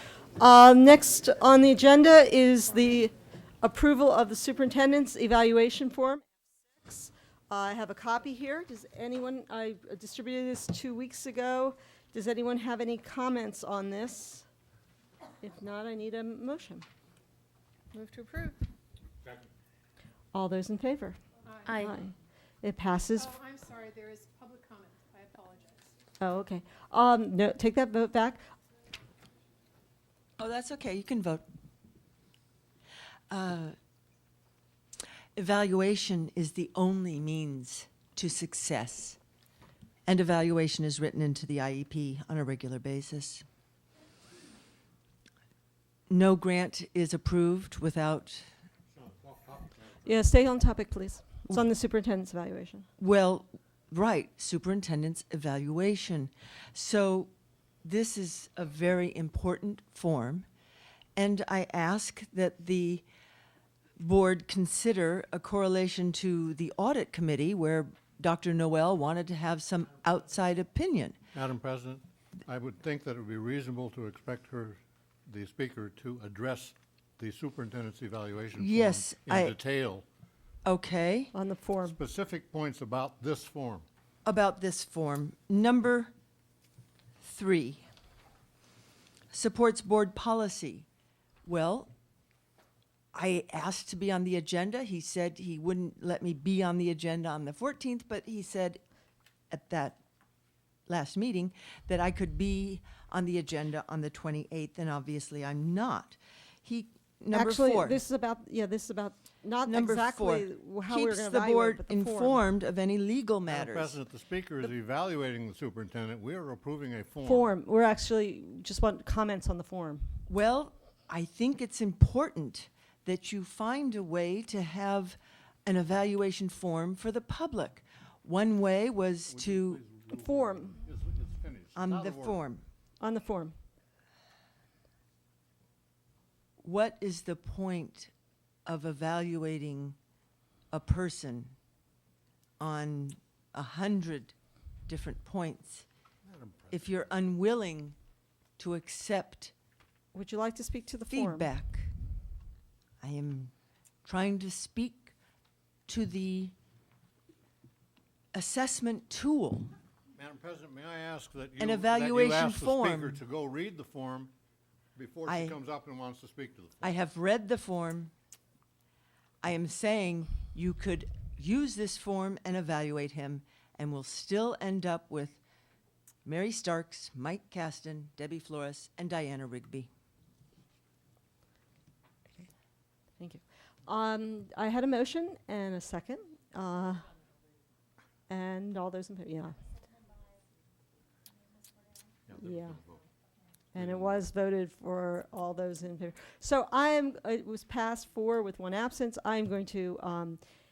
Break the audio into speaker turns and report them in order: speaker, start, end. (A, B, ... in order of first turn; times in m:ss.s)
0:00.4-0:14.5 A
0:15.4-0:16.9 A
0:17.9-0:18.6 B
0:20.3-0:23.3 A
0:21.4-0:21.8 B
0:23.2-0:25.9 B
0:26.2-0:28.4 A
0:30.4-0:31.4 C
0:33.3-0:33.8 C
0:35.4-0:39.2 C
0:40.1-0:43.4 C
0:46.1-0:48.5 C
0:48.9-0:50.2 D
0:50.0-0:52.9 A
0:53.0-0:57.3 C
0:57.8-1:00.5 C
1:01.2-1:03.0 C
1:04.0-1:11.2 C
1:11.3-1:20.0 D
1:18.6-1:19.6 C
1:20.6-1:21.3 C
1:21.3-1:22.0 A
1:21.9-1:23.9 D
1:24.2-1:26.1 C
1:27.2-1:27.9 C
1:29.3-1:30.9 C
1:31.4-1:31.9 C
1:33.1-1:38.8 C
1:39.5-1:40.0 C
1:40.9-1:48.0 C
1:47.3-1:52.4 A
1:49.6-1:54.0 C
1:53.5-1:57.5 D
1:57.2-2:00.2 A
2:00.3-2:09.8 C
2:09.3-2:12.4 D
2:10.1-2:10.8 A
2:11.8-2:12.6 C
2:13.0-2:13.6 A
2:16.6-2:18.1 C
2:18.7-2:20.0 C
2:20.7-2:21.5 C
2:22.6-2:24.4 C
2:24.9-2:25.9 C
2:26.2-2:26.8 D
2:26.7-2:28.0 C
2:28.6-2:29.5 C
2:30.1-2:31.5 A
2:31.1-2:31.9 C
2:33.0-2:33.5 C
2:34.0-2:35.1 C
2:35.9-2:36.5 C
2:38.3-2:39.7 C
2:40.2-2:44.3 D
2:41.6-2:43.2 C
2:45.0-2:46.9 D
2:45.3-2:45.6 C
2:46.8-2:48.1 C
2:49.4-2:55.4 C
2:56.2-2:59.9 C
3:03.2-3:07.1 A
3:08.3-3:09.6 A
3:12.3-3:13.0 D
3:12.4-3:12.8 A
3:13.7-3:20.4 A
3:13.8-3:14.2 D